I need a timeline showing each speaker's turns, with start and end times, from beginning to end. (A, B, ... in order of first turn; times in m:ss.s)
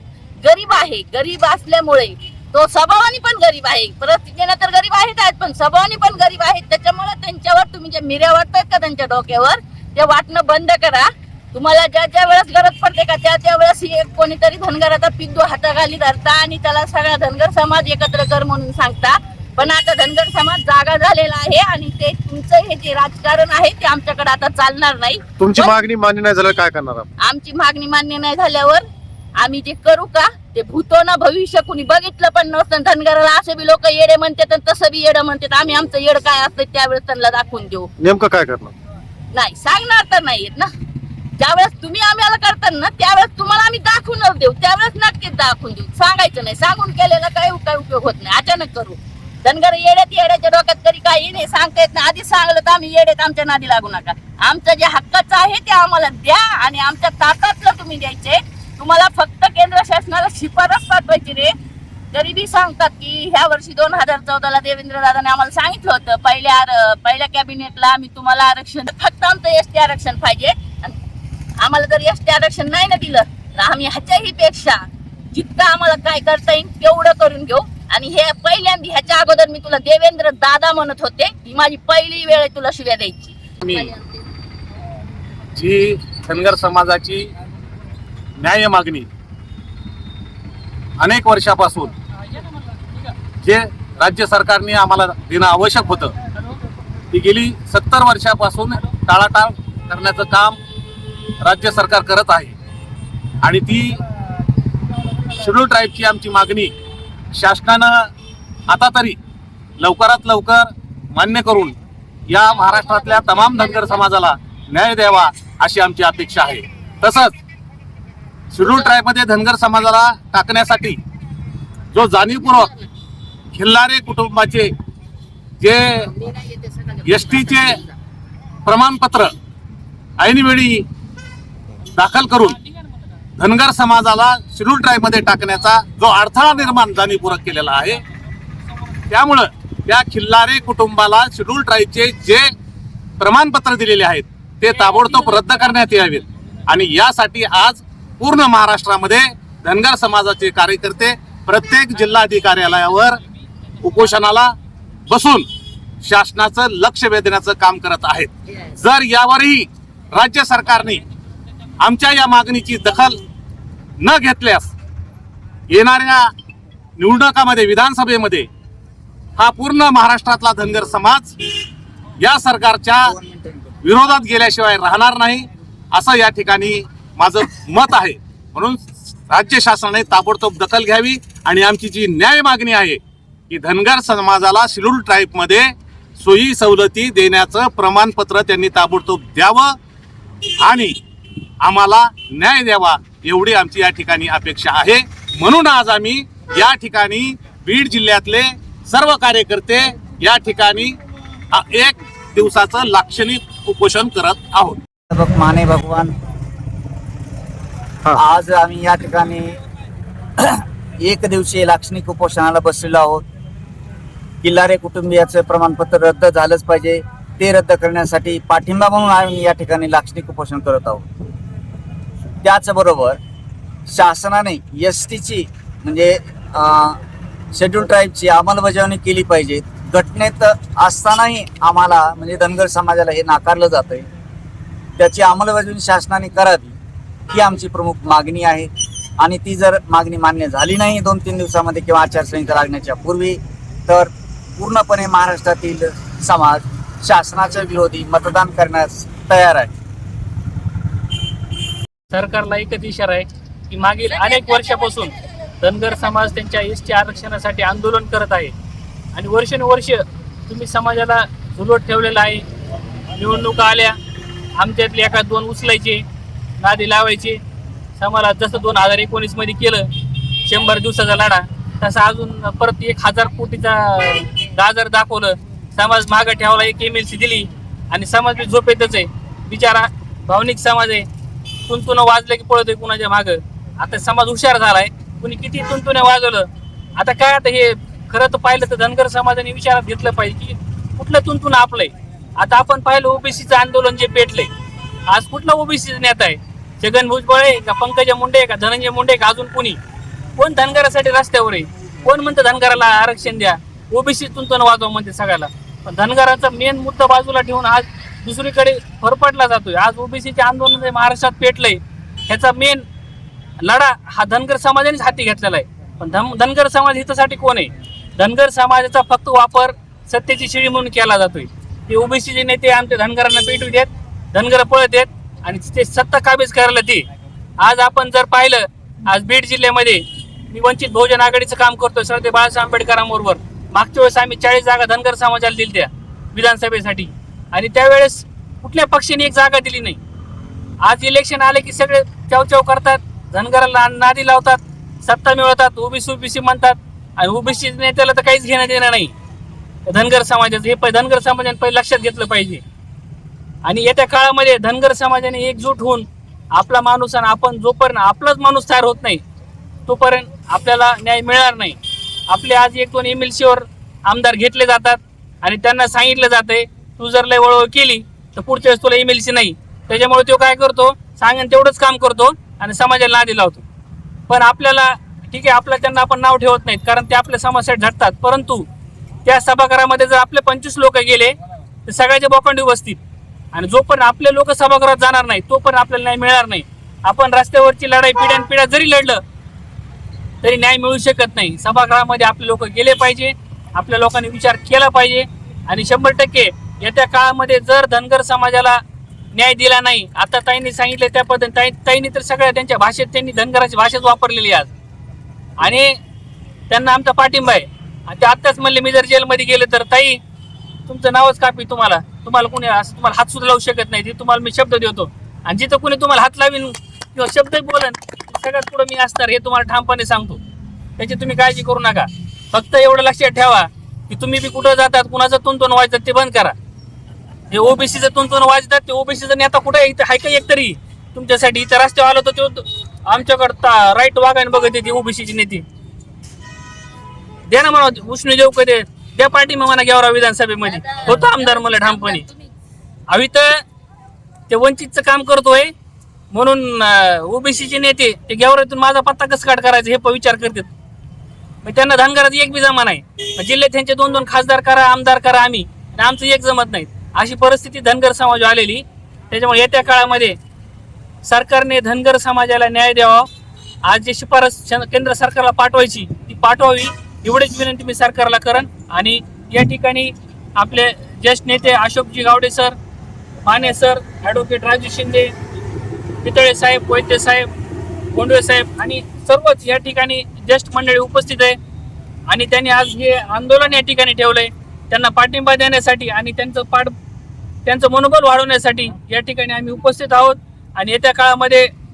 0:00.4-0:25.8 A
0:25.4-0:27.1 B
0:27.2-0:28.8 A
0:29.4-0:37.9 A
0:38.0-0:38.8 B
0:39.3-0:40.7 A
0:41.4-1:01.5 A
1:02.1-1:11.0 A
1:11.6-1:24.1 A
1:23.6-1:23.9 C
1:25.6-1:27.3 C
1:28.4-1:29.1 C
1:31.0-1:31.9 C
1:32.3-1:33.2 D
1:33.4-1:36.1 C
1:37.1-1:40.6 C
1:41.4-1:42.6 C
1:43.4-1:44.0 C
1:45.4-1:46.7 C
1:47.3-1:48.1 C
1:48.7-1:49.2 C
1:49.8-1:51.8 C
1:52.3-1:57.3 C
1:58.5-2:01.0 C
2:01.9-2:02.7 C
2:03.5-2:04.7 C
2:05.6-2:06.1 C
2:06.3-2:07.0 A
2:07.0-2:07.8 C
2:08.6-2:09.3 C
2:10.2-2:10.9 C
2:12.0-2:12.6 C
2:13.4-2:18.0 C
2:19.1-2:22.5 C
2:23.2-2:33.2 C
2:25.1-2:25.4 D
2:33.8-2:34.5 C
2:35.1-2:35.5 C
2:36.0-2:41.0 C
2:41.8-2:43.2 C
2:44.0-2:44.7 C
2:45.7-2:46.3 C
2:47.0-2:48.5 C
2:49.4-2:51.3 C
2:52.2-2:53.1 C
2:53.0-2:53.7 E
2:53.8-3:09.8 C
3:10.6-3:11.0 C
3:11.6-3:21.0 C
3:21.5-3:24.8 C
3:25.1-3:26.2 E
3:28.1-3:29.6 E
3:30.4-3:33.2 E
3:34.4-3:41.1 E
3:42.4-3:43.2 E
3:43.9-3:47.0 E
3:47.5-3:54.1 E
3:55.0-3:56.8 E
3:57.3-4:09.7 E
4:12.1-4:18.5 D
4:19.1-4:22.4 D
4:23.2-4:24.0 D
4:24.6-4:26.0 D
4:26.6-4:27.4 D
4:28.0-4:29.9 D
4:30.4-4:41.1 D
4:41.7-4:54.5 D
4:55.1-4:59.8 D
5:00.4-5:12.8 D
5:13.6-5:27.1 D
5:27.6-5:40.0 D
5:40.8-5:49.1 D
5:49.9-5:52.6 D
5:53.6-5:59.2 D
5:59.9-6:13.6 D
6:14.3-6:18.7 D
6:19.2-6:21.3 D
6:21.9-6:23.0 D
6:23.5-6:29.2 D
6:30.4-6:38.8 D
6:39.3-6:44.7 D
6:45.6-6:46.0 D
6:46.7-6:50.2 D
6:50.9-7:00.4 D
7:01.0-7:06.6 D
7:07.5-7:15.6 D
7:17.5-7:22.2 D
7:20.7-7:22.5 A
7:23.1-7:23.6 D
7:24.5-7:25.7 D
7:26.3-7:30.7 D
7:31.6-7:40.4 D
7:41.2-7:43.3 D
7:43.8-7:52.8 D
7:53.4-7:55.3 D
7:56.2-7:57.5 D
7:58.1-8:01.6 D
8:02.3-8:06.9 D
8:07.6-8:11.7 D